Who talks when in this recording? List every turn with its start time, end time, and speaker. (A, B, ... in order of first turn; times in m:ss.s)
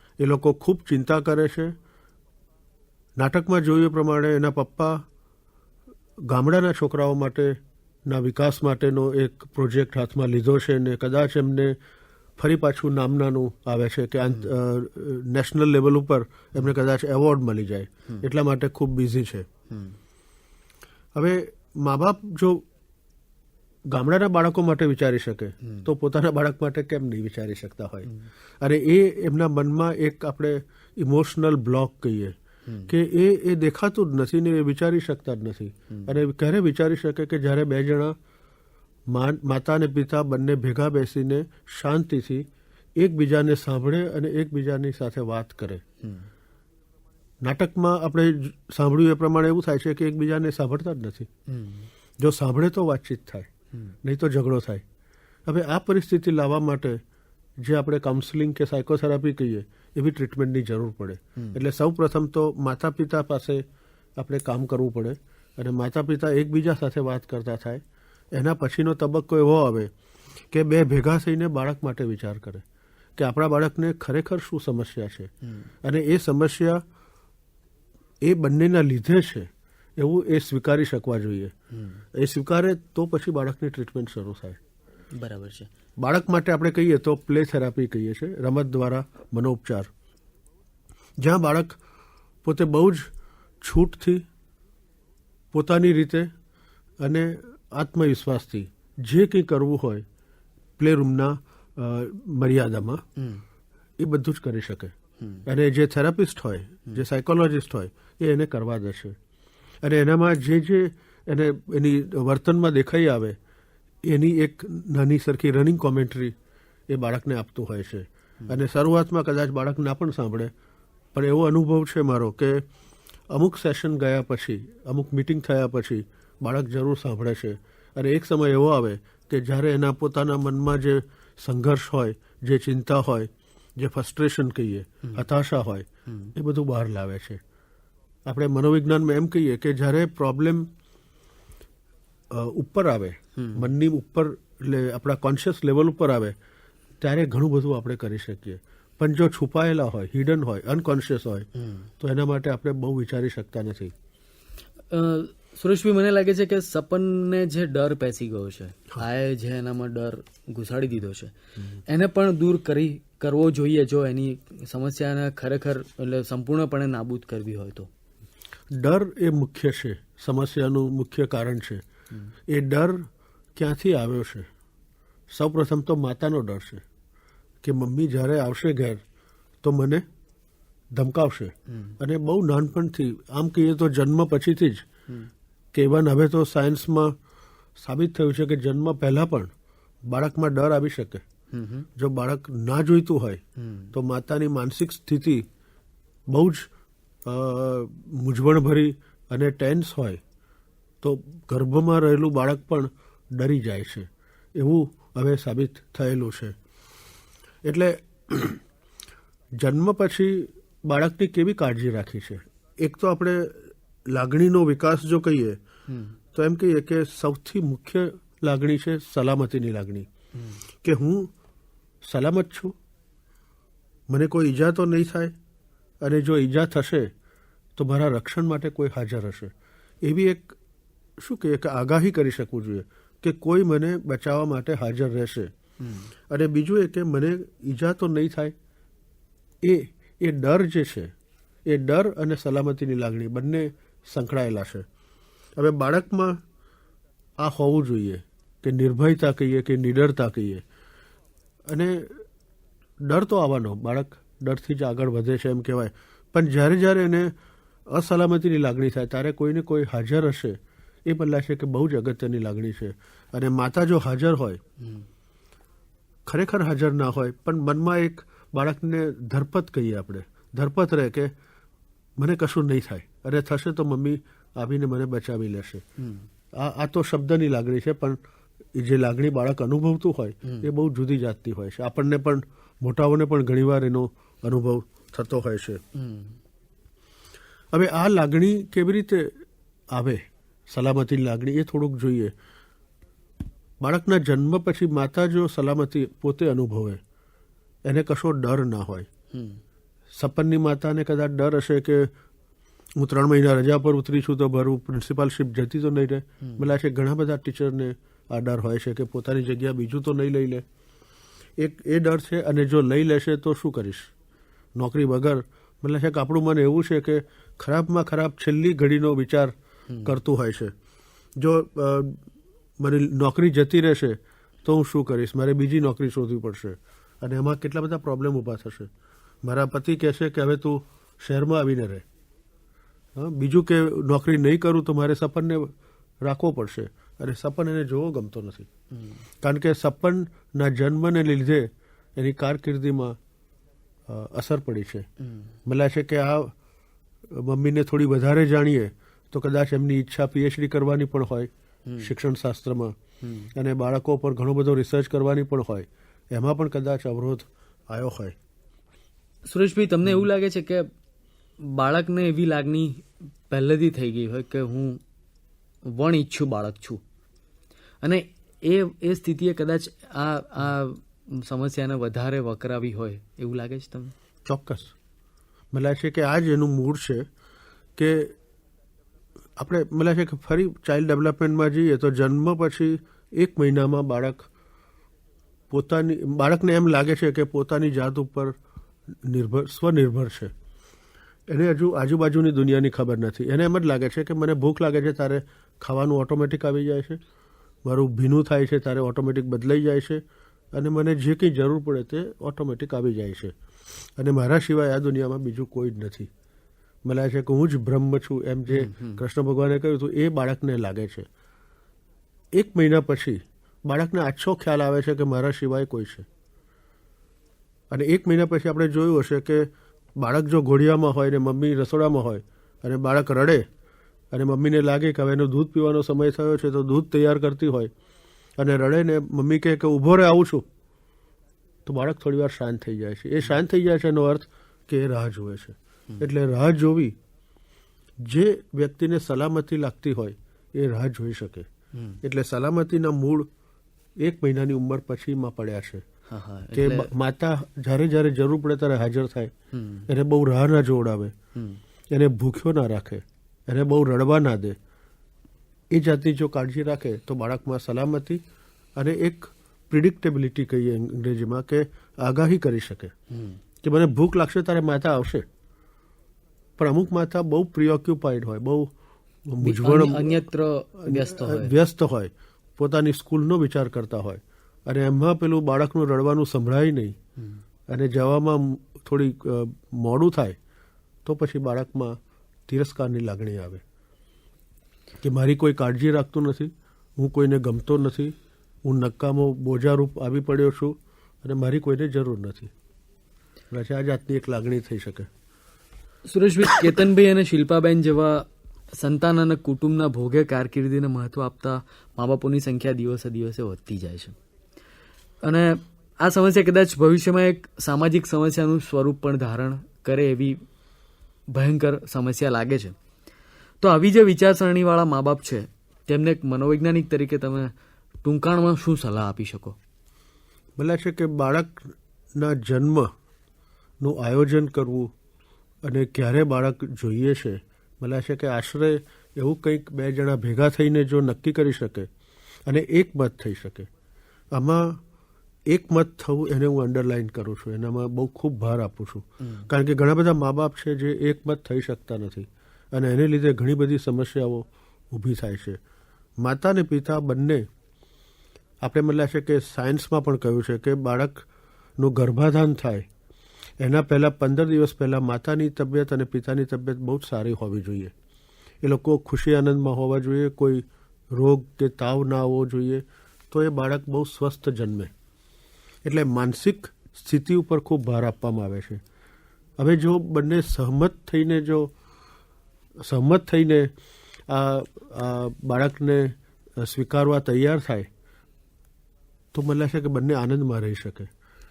0:00.2-0:01.8 A
0:03.2-0:05.0 A
0:06.3-0:11.7 A
0:12.4-0:19.5 A
0:19.7-0:20.0 B
0:21.1-0:22.6 A
0:23.9-0:32.4 A
0:32.7-0:32.9 B
0:32.9-0:38.2 A
0:35.9-0:36.2 B
0:39.1-0:42.4 A
0:43.0-0:45.8 A
0:46.0-0:46.3 B
0:47.4-0:51.3 A
0:51.5-0:51.9 B
0:52.2-0:53.5 A
0:54.0-0:54.8 A
0:55.4-0:57.0 A
0:57.6-1:03.6 A
1:04.2-1:07.8 A
1:08.3-1:09.9 A
1:10.5-1:12.6 A
1:13.2-1:15.3 A
1:15.8-1:16.8 A
1:18.2-1:21.5 A
1:21.7-1:22.0 B
1:22.1-1:24.6 A
1:25.1-1:25.7 B
1:26.0-1:29.9 A
1:31.2-1:31.8 A
1:32.4-1:33.1 A
1:33.6-1:34.2 A
1:35.5-1:36.3 A
1:37.0-1:40.0 A
1:40.8-1:43.0 A
1:43.2-1:43.4 B
1:44.0-1:44.9 A
1:45.4-1:49.2 A
1:49.8-1:53.4 A
1:54.1-1:56.4 A
1:56.9-2:00.5 A
2:01.1-2:02.6 A
2:03.3-2:17.4 A
2:18.3-2:20.7 A
2:22.3-2:26.4 A
2:23.4-2:23.6 B
2:27.0-2:31.5 A
2:31.6-2:31.9 B
2:32.0-2:33.9 A
2:34.9-2:41.3 B
2:41.9-2:47.9 B
2:48.7-2:51.8 A
2:52.5-2:54.5 A
2:55.3-2:56.8 A
2:57.6-2:59.0 A
2:59.6-3:00.0 A
3:01.0-3:04.9 A
3:01.7-3:02.0 B
3:05.7-3:07.1 A
3:07.8-3:09.5 A
3:10.1-3:11.2 A
3:11.5-3:11.9 B
3:12.0-3:13.4 A
3:13.6-3:13.9 B
3:13.9-3:15.4 A
3:16.3-3:16.7 A
3:17.3-3:20.2 A
3:21.0-3:26.6 A
3:27.6-3:28.6 A
3:29.6-3:35.6 A
3:35.9-3:36.2 B
3:36.4-3:40.1 A
3:40.8-3:41.3 A
3:42.0-3:42.8 A
3:44.1-3:45.3 A
3:46.0-3:47.1 A
3:47.8-3:49.5 A
3:50.0-3:50.6 A
3:51.2-3:55.5 A
3:55.8-3:56.1 B
3:56.3-3:58.5 A
3:59.6-4:01.1 A
4:01.7-4:04.9 A
4:05.6-4:06.4 A
4:07.4-4:10.6 A
4:11.7-4:12.2 A
4:13.0-4:17.3 A
4:17.9-4:24.6 A
4:24.8-4:25.1 B
4:26.3-4:31.3 A
4:32.2-4:35.8 A
4:36.0-4:36.3 B
4:36.6-4:38.2 A
4:38.8-4:45.8 A
4:45.9-4:46.4 B
4:47.7-4:49.3 A
4:49.9-4:52.3 A
4:53.8-4:57.0 A
4:57.9-4:59.1 A
4:59.3-4:59.6 B
5:00.2-5:02.1 A
5:03.0-5:10.6 A
5:11.6-5:14.1 A
5:14.8-5:20.7 A
5:19.9-5:20.2 B
5:21.4-5:22.2 A
5:22.8-5:28.9 A
5:29.4-5:32.0 A
5:33.2-5:35.7 A
5:36.2-5:38.7 A
5:38.9-5:39.2 B
5:39.4-5:43.2 A
5:44.1-5:45.1 A
5:45.2-5:45.5 B
5:45.6-5:46.5 A
5:47.3-5:52.9 A
5:51.9-5:52.1 B
5:53.2-5:53.5 B
5:53.6-5:58.4 A
5:59.5-6:00.9 B
6:01.6-6:05.0 B
6:05.9-6:07.0 B
6:08.0-6:14.1 B
6:14.5-6:14.9 A
6:15.7-6:17.3 A
6:18.0-6:18.3 A
6:19.6-6:24.5 A
6:25.7-6:28.5 A
6:29.3-6:30.5 A
6:31.5-6:37.2 A
6:37.8-6:40.2 A
6:40.7-6:43.5 A
6:44.2-6:46.3 A
6:47.0-6:51.3 A
6:48.7-6:49.2 B
6:52.6-6:56.3 A
6:57.9-7:03.6 A
7:04.3-7:07.9 A
7:08.6-7:10.7 A
7:11.8-7:17.1 A
7:18.2-7:21.7 A
7:22.2-7:23.5 A
7:24.2-7:26.0 A
7:26.3-7:27.1 B
7:26.7-7:29.5 A
7:29.7-7:30.1 B
7:30.1-7:31.3 A
7:32.1-7:34.8 A
7:35.9-7:38.4 A
7:39.0-7:43.1 A
7:43.3-7:43.6 B
7:43.8-7:45.4 A
7:46.8-7:48.9 A
7:49.5-7:50.5 A
7:49.6-7:51.7 B
7:51.0-7:57.2 A
7:57.9-8:00.6 A
8:01.2-8:03.8 A
8:05.2-8:08.3 A
8:08.8-8:12.7 A
8:13.7-8:15.3 A
8:16.3-8:24.4 B
8:25.4-8:30.6 B
8:31.5-8:32.9 B
8:33.8-8:37.7 B
8:38.2-8:39.8 B
8:40.8-8:43.1 A
8:44.0-8:45.1 A
8:45.8-8:52.1 A
8:52.6-8:53.9 A
8:54.5-8:55.0 A
8:55.7-9:05.8 A
8:59.4-8:59.7 B
9:06.4-9:07.7 A
9:08.8-9:11.4 A
9:12.0-9:13.1 A
9:13.8-9:18.1 A
9:18.8-9:25.1 A
9:26.0-9:29.0 A
9:29.8-9:31.9 A
9:33.0-9:33.9 A
9:34.5-9:38.1 A
9:39.5-9:41.3 A